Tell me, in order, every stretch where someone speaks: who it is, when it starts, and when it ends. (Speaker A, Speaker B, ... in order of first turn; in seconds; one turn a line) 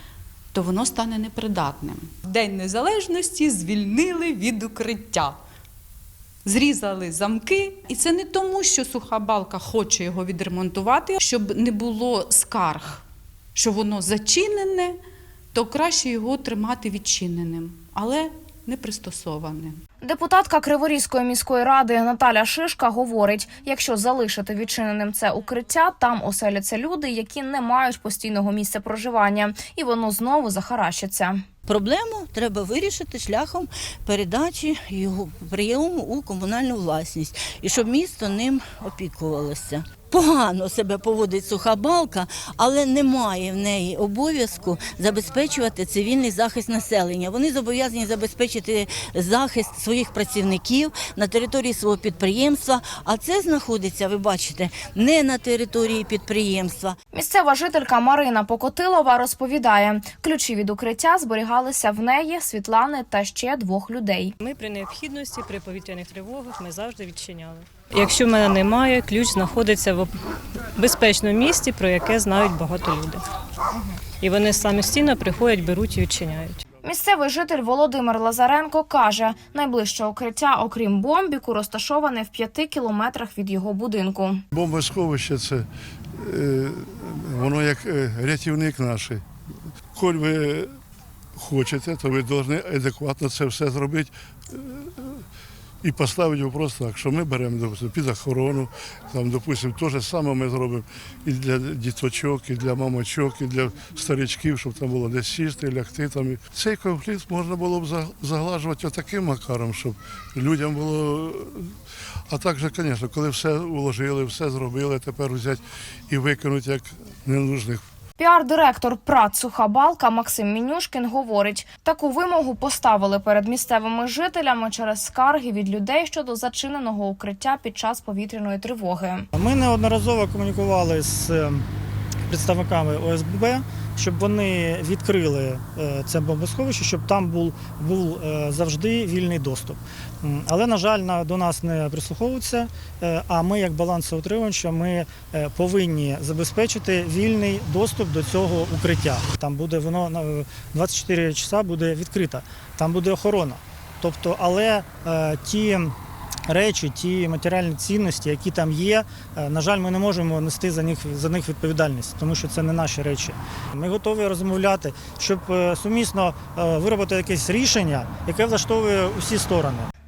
Speaker A: 0.5-5.4
Speaker A: 6.4-13.0
Speaker A: 13.5-15.0
Speaker A: 15.5-19.8
Speaker B: 20.0-31.4
Speaker C: 31.7-57.0
Speaker B: 57.1-64.3
Speaker D: 64.4-70.1
Speaker D: 70.8-73.2
Speaker D: 73.7-76.6
Speaker B: 76.8-84.4
Speaker E: 84.5-89.2
Speaker E: 89.9-90.7
Speaker E: 91.3-95.2
Speaker E: 95.8-111.7
Speaker E: 112.3-117.8
Speaker B: 118.2-129.3
Speaker F: 129.3-131.6
Speaker F: 132.3-155.9
Speaker F: 156.5-169.9